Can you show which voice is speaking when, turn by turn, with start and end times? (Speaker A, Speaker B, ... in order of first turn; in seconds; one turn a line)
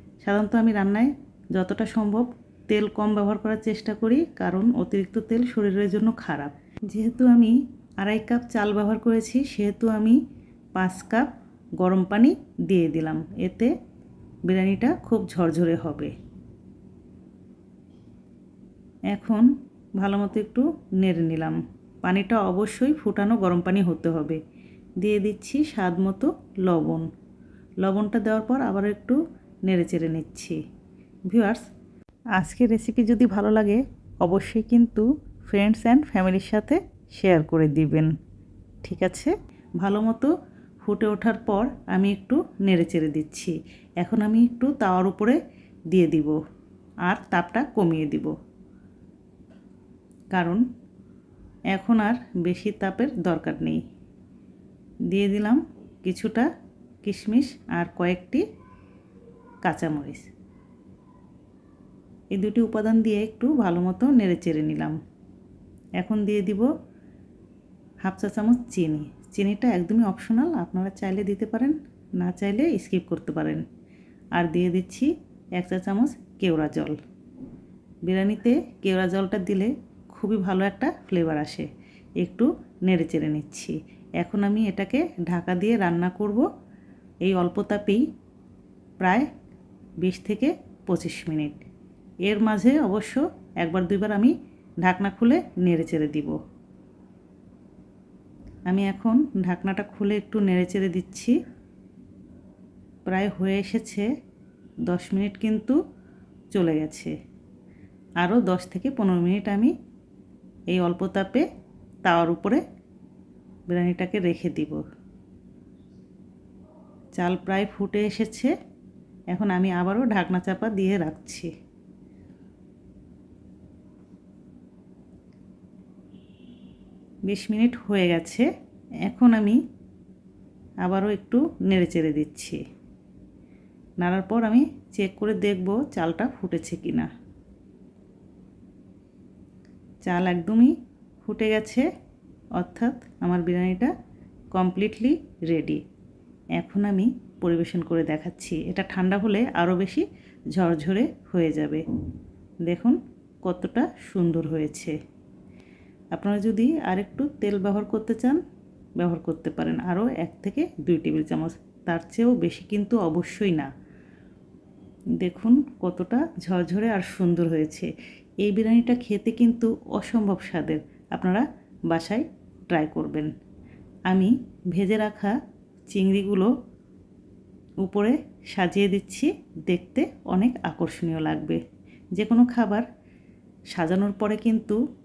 Speaker A: 0.2-10.2
Speaker A: 10.7-13.7
Speaker A: 14.5-16.1
Speaker A: 19.1-24.4
Speaker A: 25.0-27.1
Speaker A: 27.8-30.6
Speaker A: 31.3-31.6
Speaker A: 32.4-38.1
Speaker A: 38.8-46.4
Speaker A: 47.0-48.3
Speaker A: 50.3-50.6
Speaker A: 51.7-53.8
Speaker A: 55.1-56.5
Speaker A: 57.0-58.4
Speaker A: 59.6-60.3
Speaker A: 62.3-65.0
Speaker A: 66.0-66.7
Speaker A: 68.0-73.6
Speaker A: 74.3-77.0
Speaker A: 78.0-81.7
Speaker A: 82.2-86.5
Speaker A: 87.2-88.0
Speaker A: 89.0-89.3
Speaker A: 90.0-91.6
Speaker A: 92.2-96.4
Speaker A: 98.7-101.4
Speaker A: 103.0-104.1
Speaker A: 104.9-105.8
Speaker A: 106.5-107.1
Speaker A: 108.2-109.7
Speaker A: 110.7-111.5
Speaker A: 112.0-112.6
Speaker A: 113.7-114.8
Speaker A: 117.2-118.5
Speaker A: 119.3-121.5
Speaker A: 127.3-128.5
Speaker A: 129.0-129.6
Speaker A: 130.8-132.6
Speaker A: 134.0-137.1
Speaker A: 140.1-141.9
Speaker A: 142.6-143.9
Speaker A: 144.5-145.8
Speaker A: 146.6-151.8
Speaker A: 152.7-155.0
Speaker A: 156.1-158.4
Speaker A: 159.0-163.7
Speaker A: 165.2-167.9
Speaker A: 168.4-173.3
Speaker A: 174.1-175.3
Speaker A: 175.9-176.5
Speaker A: 177.8-181.6
Speaker A: 182.1-182.8
Speaker A: 183.7-184.8